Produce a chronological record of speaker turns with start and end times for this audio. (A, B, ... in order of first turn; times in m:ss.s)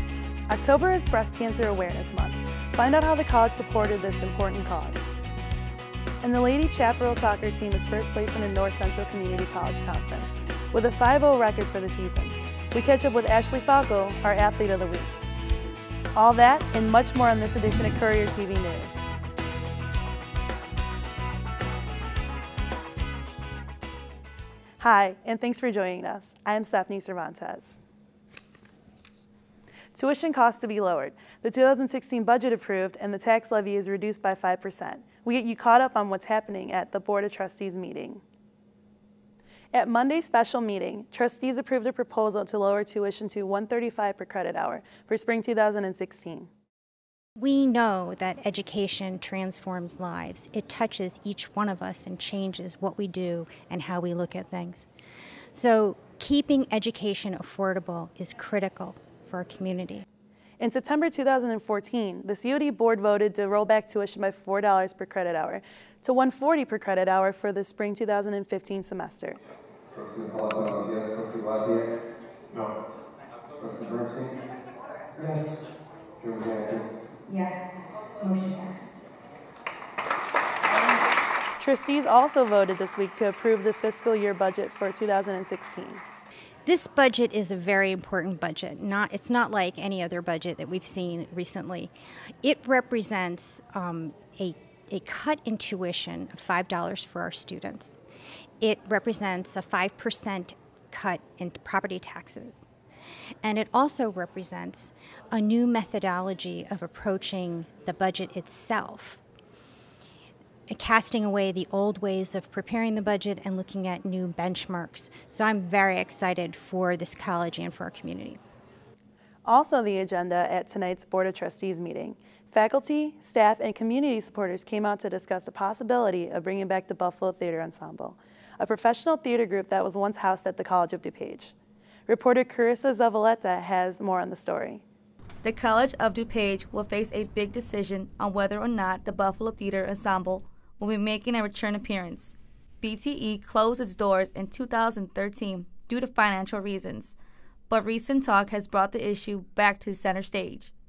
0:00.5-0:05.1 A
0:06.2-0:15.2 A
0:16.1-0:19.0 A
0:24.8-0:27.8 A
0:29.9-0:38.2 A
0:39.7-0:46.5 A
0:47.4-0:54.9 B
0:55.5-1:00.0 B
1:00.6-1:09.4 A
1:09.9-1:11.9 C
1:13.6-1:14.3 C
1:16.2-1:16.9 C
1:17.3-1:17.6 B
1:18.2-1:18.8 B
1:21.6-1:26.0 A
1:26.6-1:31.9 B
1:32.4-1:37.9 B
1:38.6-1:42.6 B
1:43.4-1:49.2 B
1:50.7-1:58.4 B
1:59.4-2:11.5 A
2:12.1-2:14.8 A
2:15.4-2:27.2 D
2:27.7-2:30.7 D